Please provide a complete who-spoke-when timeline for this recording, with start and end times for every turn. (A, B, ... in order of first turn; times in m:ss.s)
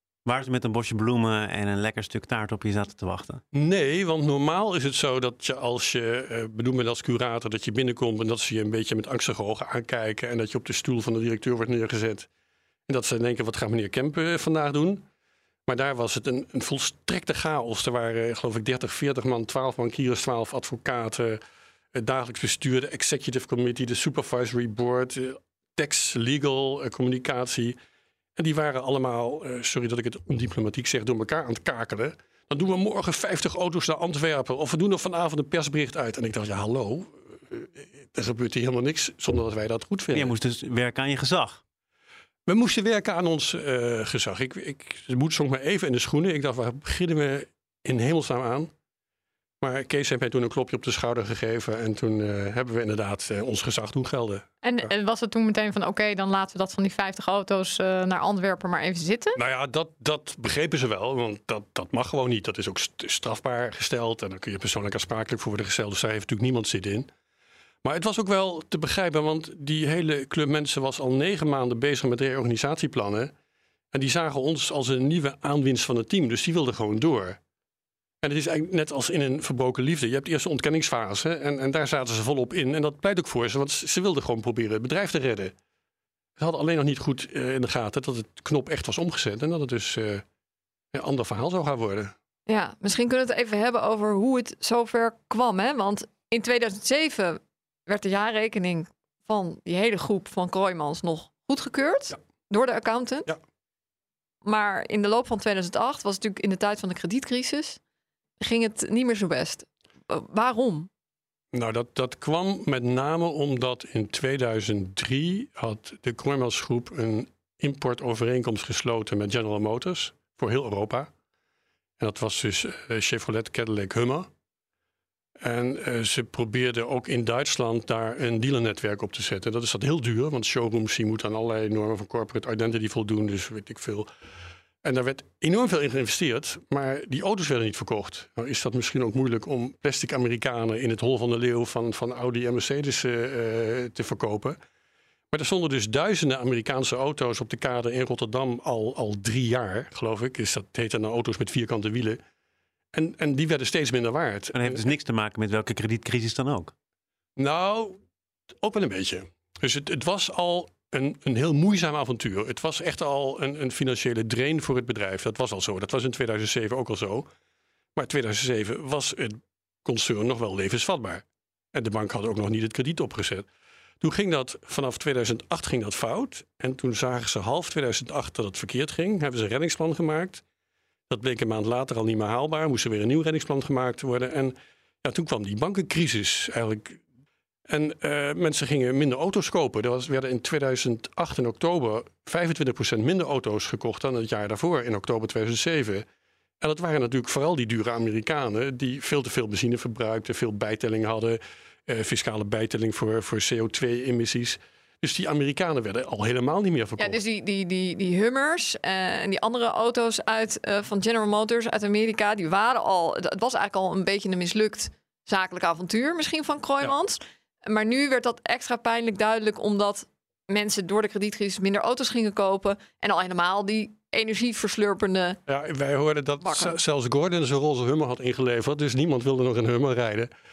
0:00.3-0:03.4 A
0:03.5-0:12.3 B
0:12.9-0:15.0 B
0:15.7-0:21.4 B
0:21.9-0:27.8 B
0:28.4-0:40.3 B
0:40.1-0:41.6 A
0:42.5-0:48.7 B
0:49.6-0:54.9 B
0:54.6-0:59.4 C
0:59.4-1:07.1 B
1:07.8-1:13.3 B
1:13.9-1:17.4 B
1:18.2-1:25.5 B
1:26.4-1:30.2 B
1:30.9-1:32.1 B
1:32.5-1:43.3 C
1:44.4-1:47.8 C
1:48.4-1:50.9 C
1:51.5-2:01.1 B
2:02.0-2:04.3 B
2:05.4-2:14.1 B
2:14.8-2:24.6 B
2:25.3-2:32.2 B
2:32.9-2:34.9 B
2:34.5-2:36.7 A
2:37.4-2:38.0 B
2:38.6-2:47.3 B
2:48.0-2:53.5 B
2:54.0-3:00.4 B
3:01.1-3:07.0 B
3:07.7-3:16.1 B
3:16.6-3:27.2 B
3:27.0-3:45.4 C
3:45.5-3:50.3 B
3:46.4-3:46.8 C